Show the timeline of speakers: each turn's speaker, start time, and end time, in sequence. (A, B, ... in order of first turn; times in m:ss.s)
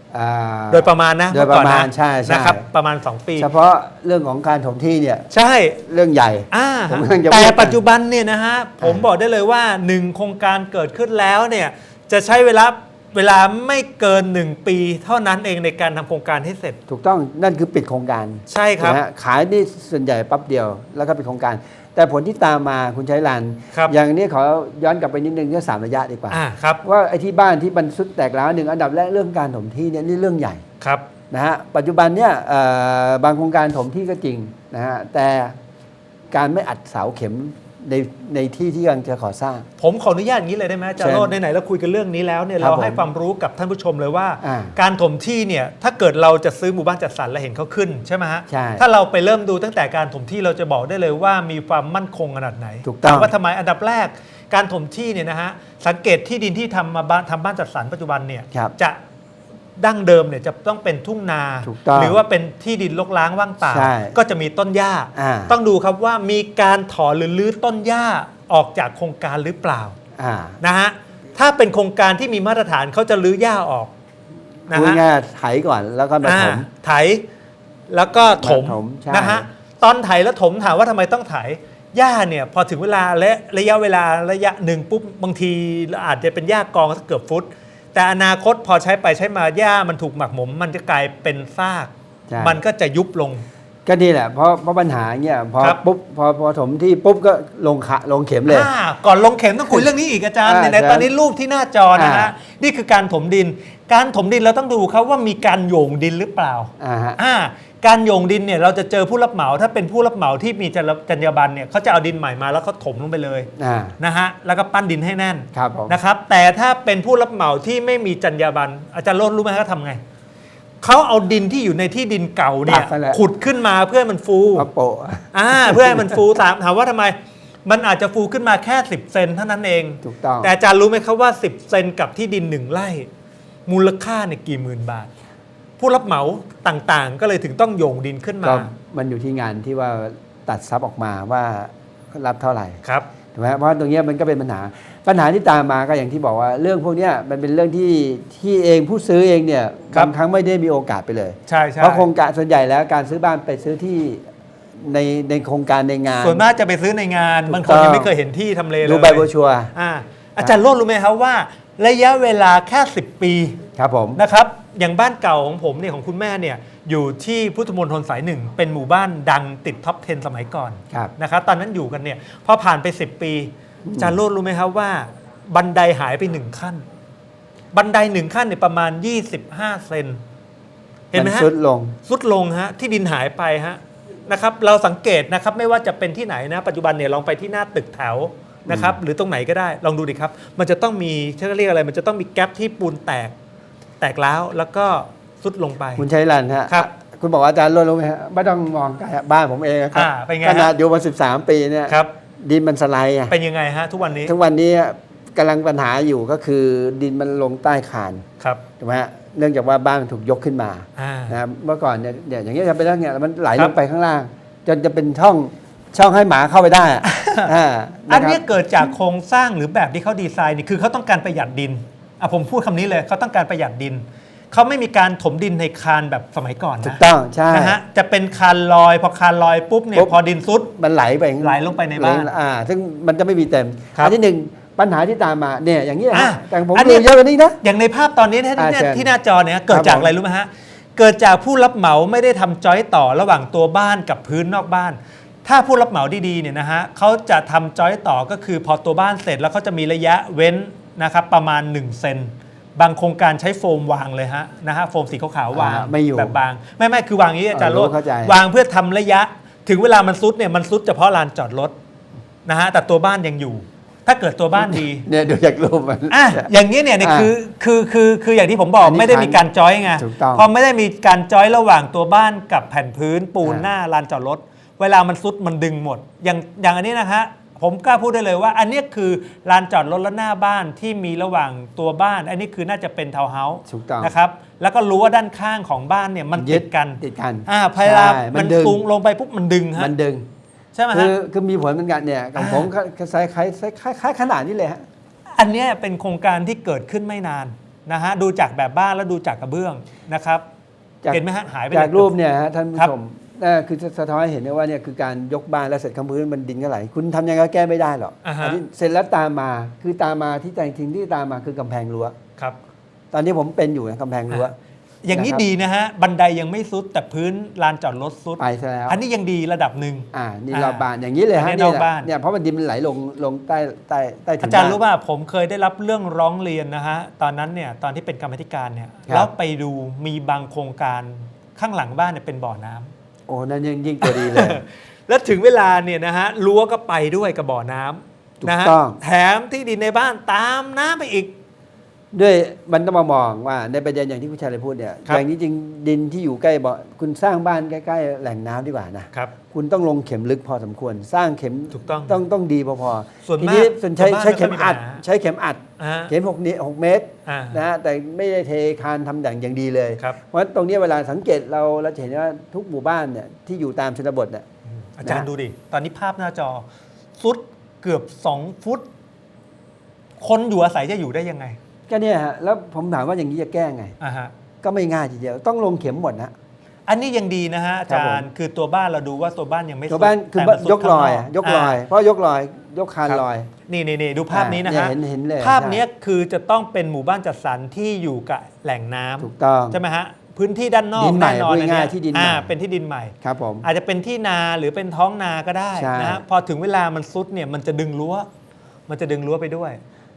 0:00.1-0:02.6 A
0:00.7-0:03.5 B
0:03.4-0:05.3 A
0:05.3-0:05.8 B
0:05.8-0:07.8 A
0:06.5-0:16.8 B
0:08.8-0:09.0 A
0:16.9-0:30.6 A
0:18.5-0:19.0 B
0:26.3-0:26.8 B
0:30.8-0:31.1 B
0:31.3-0:35.5 A
0:36.3-0:39.7 A
0:39.8-0:59.0 B
0:41.0-0:41.3 A
0:42.6-0:43.1 A
0:44.4-0:44.8 A
0:48.5-0:48.8 A
0:52.8-0:53.3 A
0:59.8-1:10.0 B
1:01.6-1:02.2 A
1:03.6-1:04.2 A
1:05.1-1:05.6 A
1:10.2-1:10.6 A
1:10.6-1:13.9 B
1:14.7-1:15.0 B
1:14.7-1:16.7 A
1:16.2-1:17.2 B
1:17.9-1:33.4 B
1:18.3-1:19.5 A
1:32.3-1:32.6 A
1:33.8-1:38.7 A
1:38.5-2:00.0 B
1:40.4-1:41.1 A
1:41.9-1:42.3 A
1:46.8-1:47.2 A
1:53.6-1:54.0 A
1:55.5-1:56.0 A
2:00.8-2:04.7 B
2:02.6-2:03.2 A
2:04.6-2:06.2 A
2:05.3-2:07.1 B
2:07.6-2:13.1 B
2:10.0-2:10.5 A
2:13.7-2:15.1 B
2:15.8-2:18.7 B
2:18.4-2:22.8 A
2:22.8-2:23.1 B
2:23.3-2:34.2 A
2:31.5-2:32.1 B
2:34.8-2:36.4 A
2:36.2-2:43.6 B
2:37.4-2:38.1 A
2:38.8-2:39.7 A
2:43.8-2:44.2 A
2:44.2-2:56.8 B
2:53.8-2:54.2 A
2:57.7-3:00.2 B
3:01.1-3:01.5 B
3:01.1-3:02.0 A
3:02.0-3:13.3 B
3:08.7-3:09.0 A
3:14.0-3:16.0 B
3:16.0-3:23.3 A
3:19.9-3:20.7 B
3:23.3-3:24.3 B
3:24.2-3:28.2 A
3:28.8-3:38.9 A
3:31.0-3:31.4 B
3:37.0-3:37.5 B
3:38.1-3:50.7 B
3:46.8-3:47.8 A
3:50.7-3:57.6 A
3:51.4-3:52.3 B
3:56.1-3:57.1 B
3:57.6-4:21.7 B
3:58.6-3:59.1 A
3:59.7-4:00.1 A
4:15.5-4:16.4 A
4:17.5-4:18.4 A
4:22.4-4:25.1 B
4:24.5-4:27.3 A
4:26.1-4:49.9 B
4:28.8-4:30.5 A
4:33.4-4:33.7 A
4:43.7-4:44.1 A
4:46.3-4:48.8 A
4:49.8-4:50.3 A
4:50.7-4:51.1 B
4:50.9-4:54.8 A
4:52.4-4:52.7 B
4:55.4-5:00.4 B
5:01.0-5:12.1 A
5:01.1-5:02.1 B
5:08.2-5:08.6 B
5:13.1-5:14.5 A
5:15.0-5:22.1 B
5:15.1-5:15.4 A
5:18.4-5:19.0 A
5:20.1-5:24.8 A
5:24.4-5:32.9 B
5:33.3-5:34.6 A
5:34.0-5:41.3 B
5:38.4-5:39.0 A
5:42.1-6:04.4 A
5:51.7-5:52.2 B
5:53.2-5:55.0 B
5:55.8-5:56.1 B
5:57.2-5:57.6 B
6:04.7-6:06.6 B
6:05.0-6:05.3 A
6:07.2-6:08.8 B
6:10.2-6:11.6 B
6:11.9-6:14.0 A
6:14.0-6:14.3 B
6:14.6-6:16.3 A
6:16.9-6:21.8 B
6:17.9-6:18.3 A
6:19.9-6:23.5 A
6:23.0-6:38.3 B
6:24.3-6:25.8 A
6:29.2-6:29.8 A
6:31.0-6:32.5 A
6:33.2-6:33.7 A
6:35.7-6:36.2 A
6:38.9-6:39.8 B